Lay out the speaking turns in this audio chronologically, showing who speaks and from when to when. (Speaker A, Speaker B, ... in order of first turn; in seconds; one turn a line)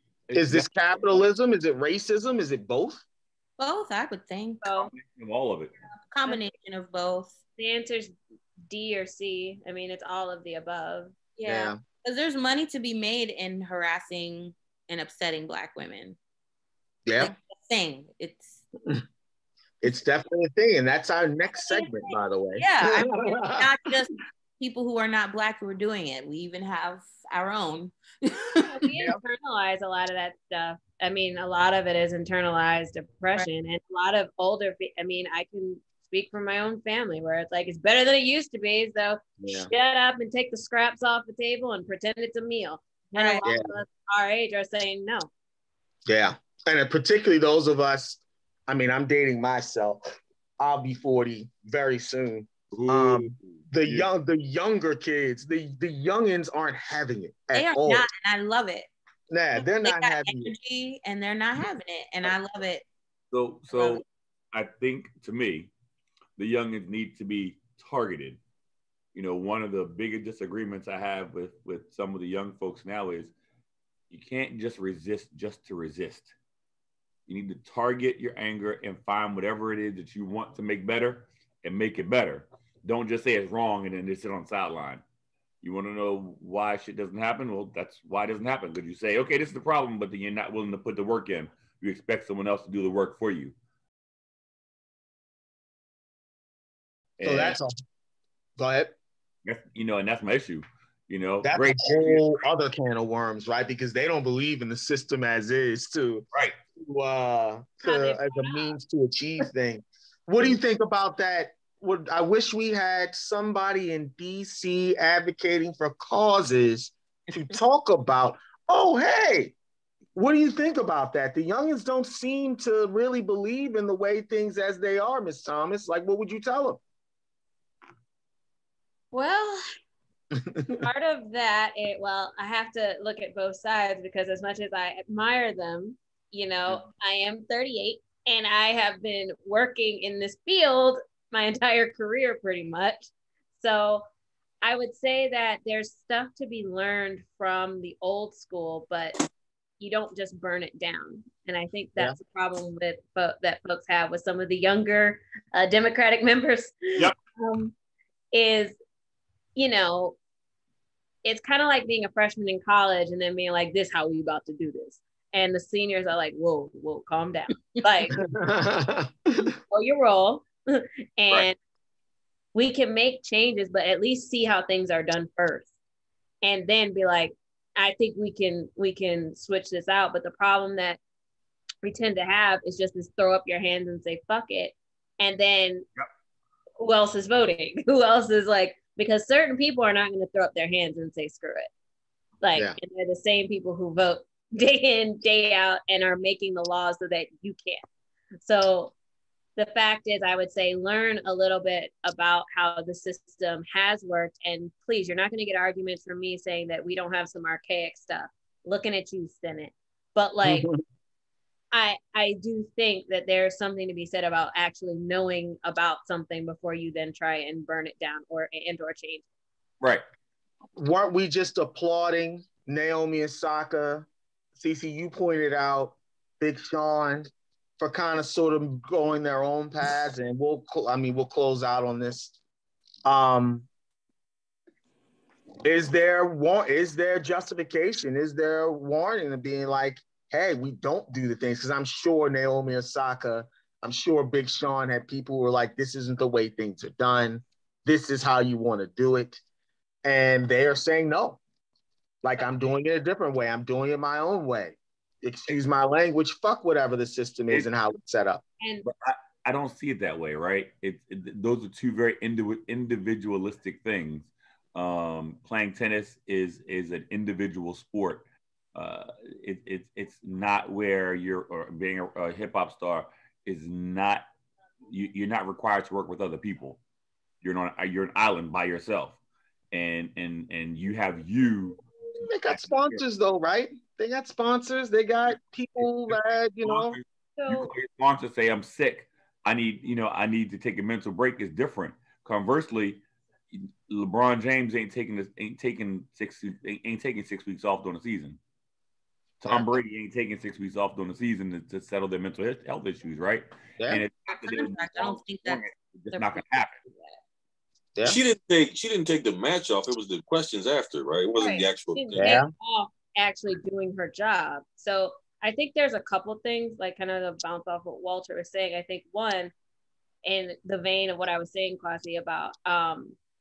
Speaker A: 0.3-1.2
Speaker B: 0.3-3.0
Speaker C: 3.6-4.6
Speaker D: 4.6-4.9
Speaker A: 4.7-5.7
Speaker C: 6.1-7.4
Speaker D: 7.6-8.1
Speaker D: 8.7-11.2
Speaker C: 11.4-16.2
Speaker B: 11.5-11.8
Speaker B: 17.1-17.3
Speaker C: 17.2-18.6
Speaker B: 19.8-23.7
Speaker C: 22.6-28.7
Speaker D: 28.6-45.3
Speaker B: 39.4-39.7
Speaker C: 43.1-43.4
Speaker B: 43.4-43.8
Speaker B: 46.1-50.1
Speaker B: 50.6-58.1
Speaker A: 52.7-54.1
Speaker C: 57.5-58.9
Speaker B: 59.3-60.5
Speaker C: 59.6-62.9
Speaker A: 63.3-65.7
Speaker C: 63.7-64.0
Speaker A: 66.4-68.4
Speaker A: 69.1-73.3
Speaker A: 74.1-76.3
Speaker A: 77.3-85.0
Speaker A: 85.6-93.5
Speaker A: 97.2-97.6
Speaker B: 97.2-97.7
Speaker B: 98.6-99.0
Speaker A: 99.5-102.4
Speaker B: 101.4-106.2
Speaker B: 106.8-119.5
Speaker D: 107.8-108.8
Speaker B: 120.2-126.8
Speaker D: 129.1-129.6
Speaker B: 130.3-130.8
Speaker D: 130.8-144.1
Speaker D: 144.6-149.2
Speaker D: 149.8-157.7
Speaker D: 158.3-158.8
Speaker D: 159.6-160.2
Speaker D: 161.2-168.2
Speaker B: 168.2-169.5
Speaker D: 169.7-171.6
Speaker D: 172.5-175.7
Speaker D: 176.4-181.0
Speaker D: 181.8-185.8
Speaker D: 186.8-191.7
Speaker D: 192.4-197.8
Speaker D: 198.4-198.9
Speaker D: 199.6-210.7
Speaker B: 210.4-210.8
Speaker D: 211.7-219.2
Speaker B: 220.8-232.3
Speaker B: 233.1-233.7
Speaker B: 235.6-249.4
Speaker B: 250.0-251.4
Speaker B: 252.2-258.4
Speaker D: 258.6-258.9
Speaker A: 258.8-268.2
Speaker A: 268.8-274.2
Speaker A: 274.9-276.8
Speaker A: 277.4-279.2
Speaker A: 279.7-281.8
Speaker B: 282.2-287.0
Speaker A: 282.5-283.0
Speaker A: 285.8-298.4
Speaker D: 287.4-287.7
Speaker A: 299.4-306.8
Speaker B: 299.5-299.8
Speaker B: 303.8-304.0
Speaker C: 304.4-307.2
Speaker E: 308.0-312.3
Speaker D: 311.4-319.5
Speaker B: 312.1-312.5
Speaker D: 320.2-323.2